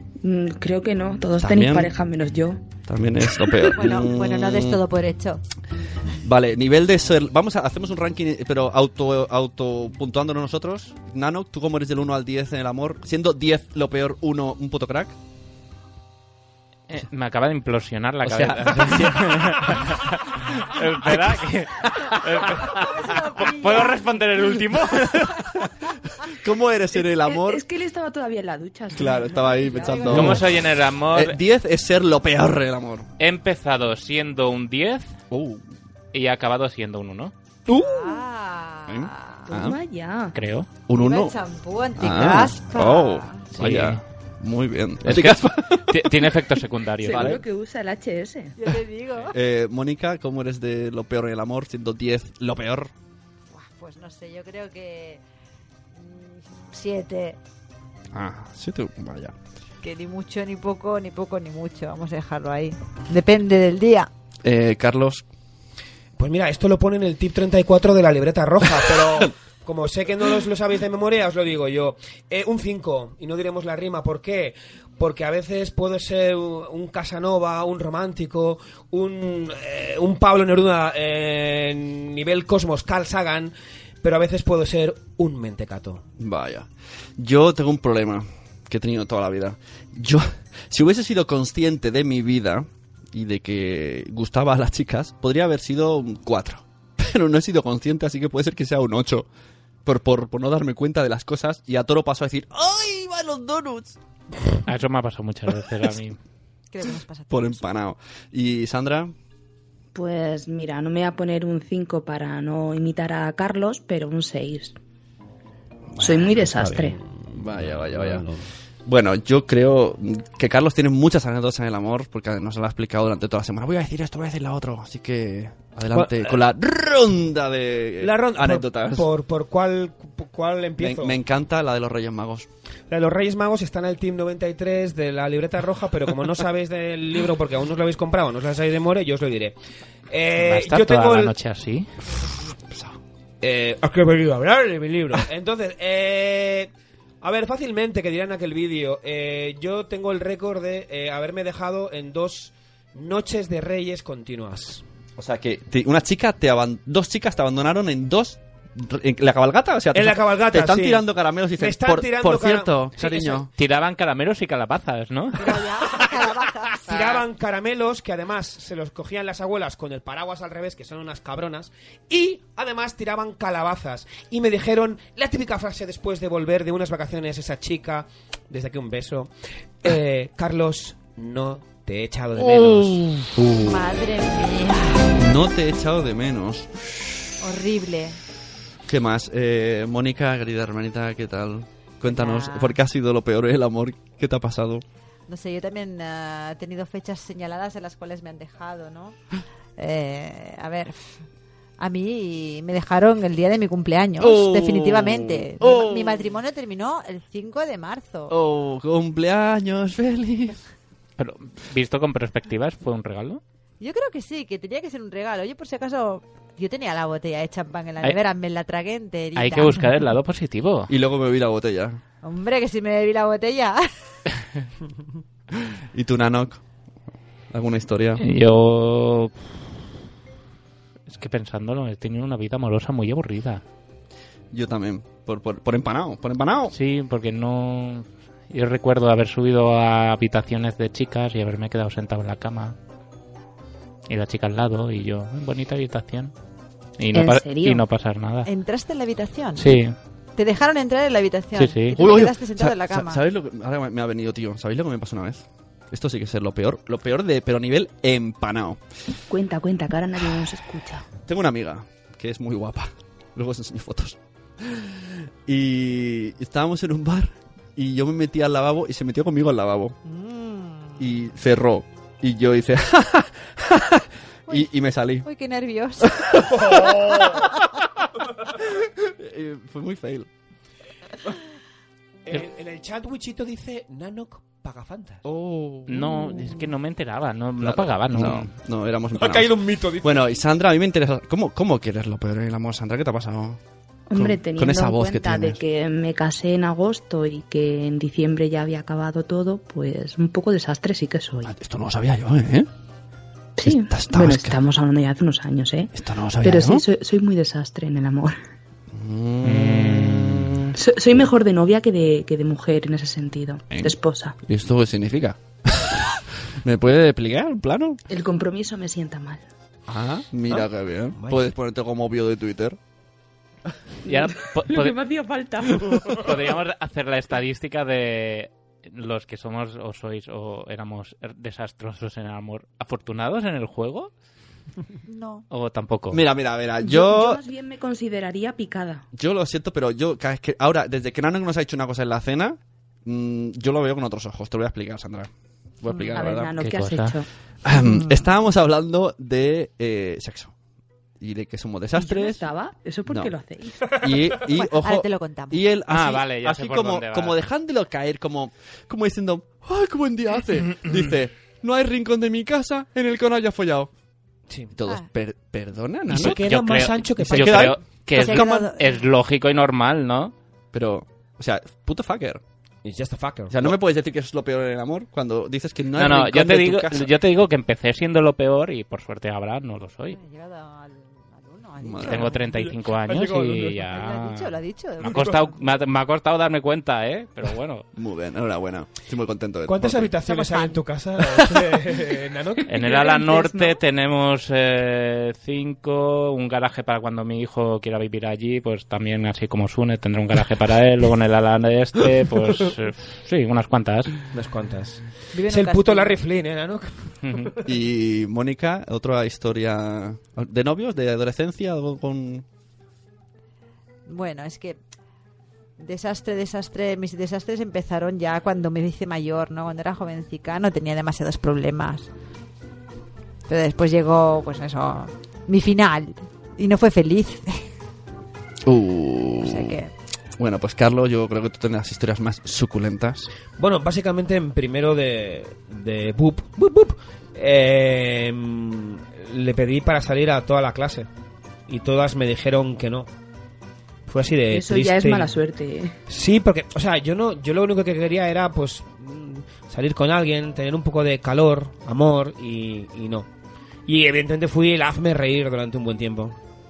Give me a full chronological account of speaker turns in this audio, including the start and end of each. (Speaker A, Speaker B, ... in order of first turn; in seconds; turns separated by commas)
Speaker A: 0.2-2.6, Speaker B: 1.4-1.9, Speaker B: 2.8-4.8, Speaker C: 3.6-5.4, Speaker B: 6.2-15.2, Speaker D: 16.9-25.4, Speaker B: 18.2-19.7, Speaker B: 21.0-21.4, Speaker B: 22.3-22.6, Speaker C: 22.7-24.2, Speaker B: 26.3-27.6, Speaker A: 27.0-30.4, Speaker B: 28.9-30.6, Speaker C: 29.5-30.1, Speaker D: 30.0-31.4, Speaker B: 31.1-33.1, Speaker D: 33.2-35.1, Speaker B: 35.3-35.6, Speaker D: 36.1-37.3, Speaker C: 37.7-39.5, Speaker B: 38.9-39.8, Speaker A: 39.5-40.4, Speaker D: 40.3-40.7, Speaker B: 40.9-41.4, Speaker C: 40.9-43.5, Speaker B: 42.0-46.1, Speaker D: 43.5-44.0, Speaker D: 45.0-47.4, Speaker A: 47.0-48.5, Speaker B: 47.0-47.4, Speaker C: 48.6-49.3, Speaker B: 49.3-52.9, Speaker C: 53.5-55.2, Speaker C: 55.9-57.4, Speaker B: 58.1-59.4, Speaker C: 59.8-64.1, Speaker B: 64.4-65.2, Speaker E: 66.2-86.0, Speaker B: 86.2-99.3, Speaker B: 99.8-104.0, Speaker D: 104.7-106.2, Speaker C: 106.7-107.7, Speaker B: 107.3-109.1, Speaker A: 109.9-114.7, Speaker B: 116.0-116.6, Speaker A: 116.0-117.0, Speaker E: 116.5-118.4, Speaker B: 117.3-118.2, Speaker B: 118.8-129.1, Speaker E: 125.9-126.3, Speaker E: 128.0-131.2, Speaker B: 130.8-132.5, Speaker E: 132.9-139.6, Speaker E: 140.1-141.3, Speaker D: 140.4-141.9, Speaker B: 142.4-143.0, Speaker E: 143.4-146.7, Speaker E: 147.2-154.8, Speaker B: 155.2-163.5, Speaker E: 159.9-161.0, Speaker E: 161.6-163.4, Speaker D: 163.6-165.6, Speaker C: 165.3-167.2, Speaker E: 166.8-179.3, Speaker E: 179.8-183.1, Speaker B: 182.6-183.8, Speaker C: 183.5-185.1, Speaker B: 185.1-187.2, Speaker C: 187.4-188.2, Speaker B: 188.9-194.8, Speaker C: 192.1-192.8, Speaker C: 195.3-199.2, Speaker C: 199.8-201.2, Speaker C: 201.8-208.3, Speaker B: 204.2-206.3, Speaker B: 208.3-210.6, Speaker D: 211.2-213.4, Speaker C: 213.8-219.9, Speaker D: 219.3-220.9, Speaker B: 220.9-222.0, Speaker C: 222.2-223.8, Speaker B: 225.9-226.6, Speaker B: 227.5-228.2, Speaker D: 228.2-229.3, Speaker D: 231.1-233.6, Speaker B: 234.5-236.7, Speaker D: 236.7-242.8, Speaker D: 244.1-246.3, Speaker D: 247.0-248.5, Speaker A: 247.1-247.8, Speaker C: 248.4-249.8, Speaker D: 249.6-249.9, Speaker C: 250.4-253.2, Speaker D: 251.6-252.1, Speaker B: 251.9-258.8, Speaker A: 259.3-261.1, Speaker B: 261.2-269.9, Speaker C: 270.0-271.1, Speaker B: 271.0-275.3, Speaker C: 275.2-276.4, Speaker B: 276.0-277.5, Speaker B: 278.6-280.3, Speaker E: 282.2-285.2, Speaker B: 285.2-286.4, Speaker D: 285.9-288.5, Speaker B: 287.6-293.6, Speaker E: 289.1-290.3, Speaker A: 294.1-301.5, Speaker B: 294.1-295.6, Speaker B: 301.4-302.7, Speaker A: 303.6-308.4, Speaker B: 303.6-304.6, Speaker B: 305.9-306.8, Speaker B: 308.9-310.7, Speaker D: 309.4-310.6, Speaker A: 310.7-314.4, Speaker B: 314.4-318.0, Speaker A: 318.1-319.4, Speaker B: 319.9-322.8, Speaker E: 320.5-321.5, Speaker D: 324.1-325.1, Speaker A: 324.1-326.1, Speaker D: 326.1-334.1, Speaker C: 335.1-335.4, Speaker D: 335.5-336.2, Speaker B: 336.1-337.4, Speaker A: 336.8-339.0, Speaker B: 339.1-346.5, Speaker A: 346.1-347.3, Speaker D: 346.6-347.1, Speaker B: 347.6-350.5, Speaker C: 347.8-348.0, Speaker B: 351.2-352.4, Speaker A: 351.9-353.8, Speaker B: 353.9-363.9, Speaker C: 354.5-355.6, Speaker D: 355.9-357.4, Speaker B: 364.8-366.4, Speaker E: 366.1-367.7, Speaker D: 366.2-370.3, Speaker B: 367.2-368.7, Speaker C: 368.1-368.9, Speaker B: 370.7-372.4, Speaker E: 372.8-373.7, Speaker B: 373.5-377.1, Speaker D: 375.9-380.2, Speaker C: 380.1-382.4, Speaker B: 381.8-382.3, Speaker D: 382.1-387.9, Speaker E: 382.4-383.8, Speaker C: 383.8-385.5, Speaker E: 385.1-385.4, Speaker B: 387.9-390.1, Speaker E: 389.6-392.8, Speaker C: 390.2-390.8, Speaker D: 392.7-404.2, Speaker A: 392.8-393.8, Speaker E: 404.3-407.5, Speaker C: 405.3-406.2, Speaker D: 407.2-407.5, Speaker B: 407.6-412.4, Speaker C: 414.1-414.8, Speaker C: 415.8-422.1, Speaker C: 423.5-427.6, Speaker B: 428.6-429.8, Speaker C: 429.4-429.9, Speaker B: 430.4-433.3, Speaker E: 433.6-441.1, Speaker E: 441.7-443.1, Speaker E: 444.1-445.3, Speaker A: 444.5-445.9, Speaker E: 446.1-453.3, Speaker E: 453.9-456.4